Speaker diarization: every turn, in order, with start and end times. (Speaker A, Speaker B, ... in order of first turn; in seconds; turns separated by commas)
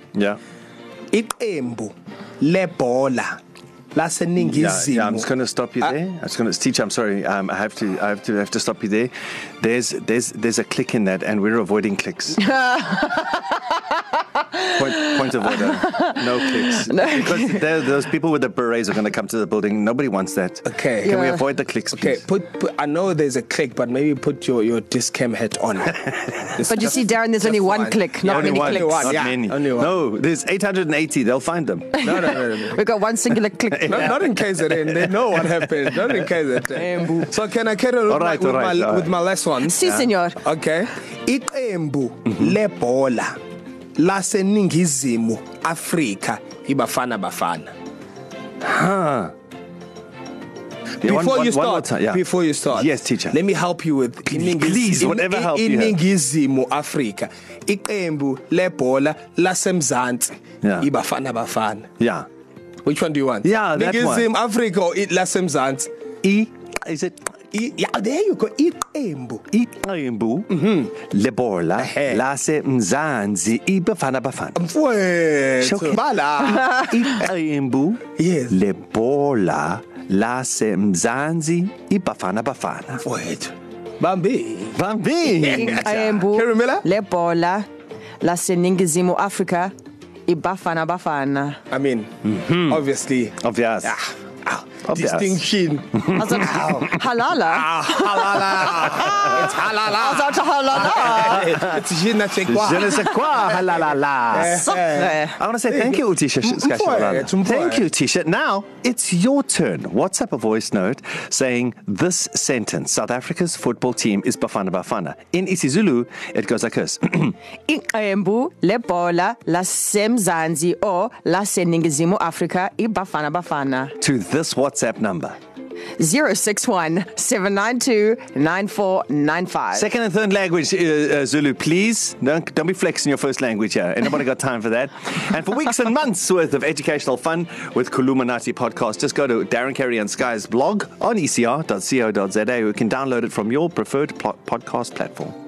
Speaker A: 0.1-0.4, Speaker B: 1.1-3.4, Speaker B: 3.9-5.3, Speaker A: 4.4-12.4, Speaker C: 12.4-17.6, Speaker A: 14.7-22.2, Speaker B: 20.7-21.2, Speaker C: 21.0-21.5, Speaker B: 21.9-29.9, Speaker C: 26.7-29.2, Speaker A: 28.2-32.3, Speaker C: 32.0-34.2, Speaker B: 32.0-32.8, Speaker A: 33.7-35.4, Speaker B: 33.9-39.8, Speaker C: 36.8-37.3, Speaker A: 38.1-39.1, Speaker C: 39.6-40.4, Speaker A: 39.8-40.1, Speaker B: 40.4-43.4, Speaker B: 44.0-47.7, Speaker A: 48.6-49.3, Speaker A: 51.0-53.4, Speaker B: 51.0-61.9, Speaker A: 54.3-56.0, Speaker A: 62.0-62.3, Speaker B: 62.8-65.9, Speaker A: 63.4-64.3, Speaker A: 66.2-67.3, Speaker B: 67.5-69.4, Speaker A: 69.5-74.6, Speaker B: 70.5-70.9, Speaker B: 71.8-72.2, Speaker B: 74.6-76.9, Speaker A: 75.6-83.0, Speaker B: 78.2-78.6, Speaker B: 83.0-86.8, Speaker A: 84.7-86.1, Speaker C: 85.5-87.7, Speaker C: 88.2-89.7, Speaker C: 90.3-91.6, Speaker B: 91.7-92.1, Speaker A: 92.2-92.8, Speaker B: 92.7-96.9, Speaker A: 93.4-94.0, Speaker A: 94.9-95.4, Speaker A: 95.9-96.8, Speaker C: 96.1-101.6, Speaker B: 97.4-103.2, Speaker A: 102.5-117.3, Speaker B: 104.3-107.8, Speaker C: 104.4-105.4, Speaker C: 117.7-124.0, Speaker A: 124.0-125.4, Speaker C: 126.0-129.9, Speaker A: 129.7-145.4